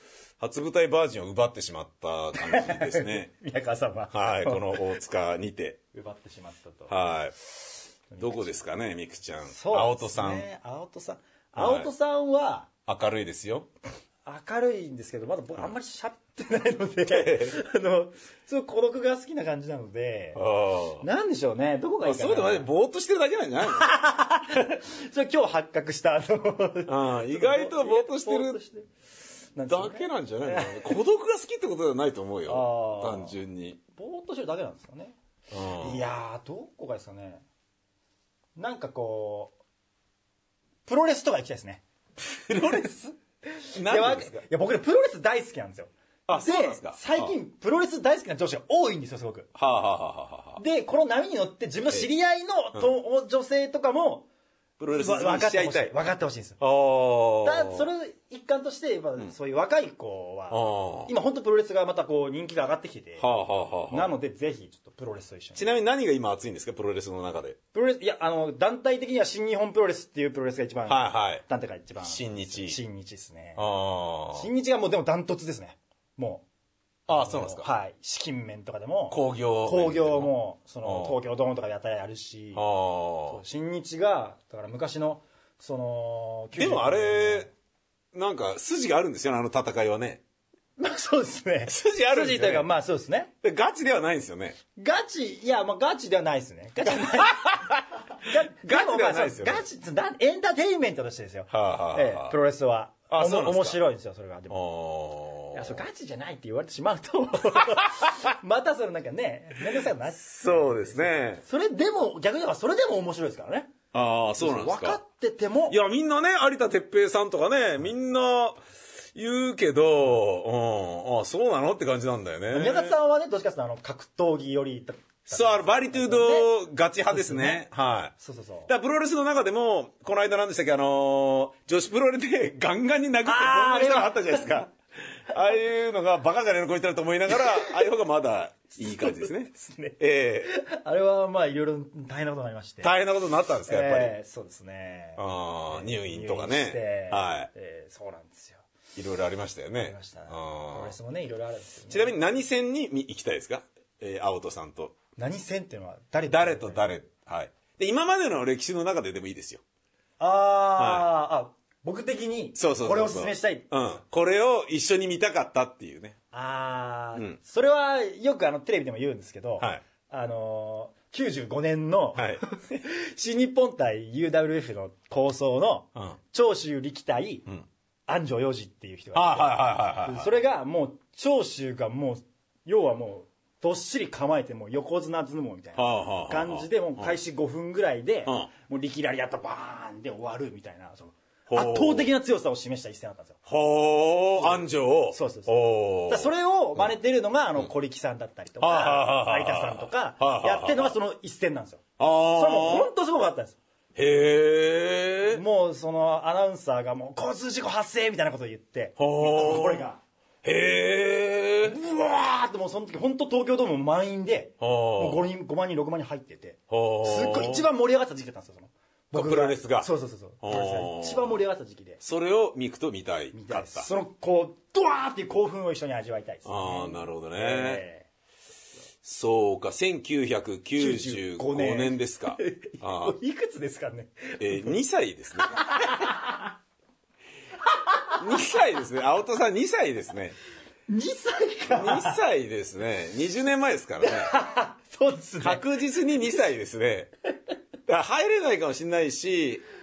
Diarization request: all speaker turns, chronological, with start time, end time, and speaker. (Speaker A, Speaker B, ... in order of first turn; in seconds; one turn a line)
Speaker A: 0.4-3.3
Speaker B: 2.4-4.8
Speaker A: 4.1-5.8
Speaker B: 5.9-6.9
Speaker A: 6.9-7.4
Speaker B: 8.1-8.5
Speaker A: 8.2-10.5
Speaker B: 9.5-12.7
Speaker A: 11.6-11.9
Speaker A: 12.9-13.7
Speaker B: 14.2-20.4
Speaker A: 17.1-17.6
Speaker A: 20.4-21.1
Speaker B: 21.0-22.7
Speaker A: 22.0-23.9
Speaker B: 23.6-28.9
Speaker A: 26.9-28.6
Speaker B: 29.6-30.9
Speaker A: 29.7-33.8
Speaker B: 32.5-33.4
Speaker B: 34.0-35.2
Speaker A: 35.5-36.1
Speaker B: 35.8-37.4
Speaker B: 38.6-39.5
Speaker B: 40.9-41.8
Speaker A: 42.5-42.9
Speaker B: 42.5-49.5
Speaker A: 43.8-44.4
Speaker A: 46.3-47.4
Speaker A: 49.5-50.6
Speaker B: 50.6-54.3
Speaker A: 54.8-56.0
Speaker B: 54.9-56.6
Speaker A: 56.6-57.9
Speaker B: 57.4-63.3
Speaker A: 60.5-61.1
Speaker A: 63.2-64.1
Speaker B: 63.9-65.7
Speaker A: 65.5-67.6
Speaker B: 67.7-73.6
Speaker A: 70.9-71.5
Speaker A: 72.0-72.8
Speaker A: 73.6-74.5
Speaker B: 74.3-76.5
Speaker A: 77.1-77.7
Speaker B: 77.1-82.6
Speaker A: 79.1-80.3
Speaker A: 80.8-81.2
Speaker A: 82.5-83.4
Speaker B: 83.3-87.5
Speaker A: 86.5-87.5
Speaker A: 88.1-90.2
Speaker B: 90.8-93.3
Speaker A: 91.7-92.7
Speaker A: 93.4-94.6
Speaker B: 94.8-104.6
Speaker A: 97.1-97.7
Speaker A: 98.6-99.7
Speaker A: 101.5-102.3
Speaker A: 103.1-103.8
Speaker A: 104.5-105.8
Speaker B: 105.5-113.7
Speaker A: 110.2-111.4
Speaker A: 113.9-115.0
Speaker B: 114.4-115.8
Speaker A: 115.7-118.6
Speaker A: 119.2-123.0
Speaker B: 122.5-126.5
Speaker A: 125.3-128.1
Speaker B: 127.1-128.7
Speaker A: 128.7-134.7
Speaker B: 133.2-134.6
Speaker A: 135.3-140.5
Speaker B: 137.4-137.7
Speaker B: 138.8-142.9
Speaker A: 142.8-144.2
Speaker B: 143.7-148.7
Speaker A: 145.2-147.5
Speaker A: 148.9-150.9
Speaker B: 149.8-152.2
Speaker A: 151.9-155.0
Speaker B: 155.2-156.8
Speaker A: 156.3-159.6
Speaker B: 160.2-163.7
Speaker A: 160.8-161.1
Speaker A: 162.6-166.2
Speaker B: 166.3-177.5
Speaker A: 172.2-172.4
Speaker B: 178.1-193.4
Speaker A: 179.1-180.3
Speaker A: 185.8-187.2
Speaker A: 191.5-192.1
Speaker A: 193.5-196.9
Speaker B: 194.4-203.6
Speaker A: 198.6-200.9
Speaker A: 202.0-202.9
Speaker A: 204.0-205.4
Speaker B: 205.3-210.0
Speaker A: 209.0-209.8
Speaker A: 210.4-211.8
Speaker B: 211.6-222.0
Speaker A: 214.6-215.3
Speaker A: 216.7-217.7
Speaker A: 219.1-219.9
Speaker A: 220.4-221.4
Speaker A: 222.0-223.9
Speaker B: 223.3-228.1
Speaker A: 226.4-227.8
Speaker A: 229.0-233.2
Speaker B: 230.8-234.7
Speaker A: 234.4-235.8
Speaker B: 235.5-236.4
Speaker A: 238.1-240.4
Speaker B: 240.9-242.2
Speaker A: 241.7-244.3
Speaker B: 244.0-245.6
Speaker A: 245.4-247.1
Speaker A: 247.9-249.6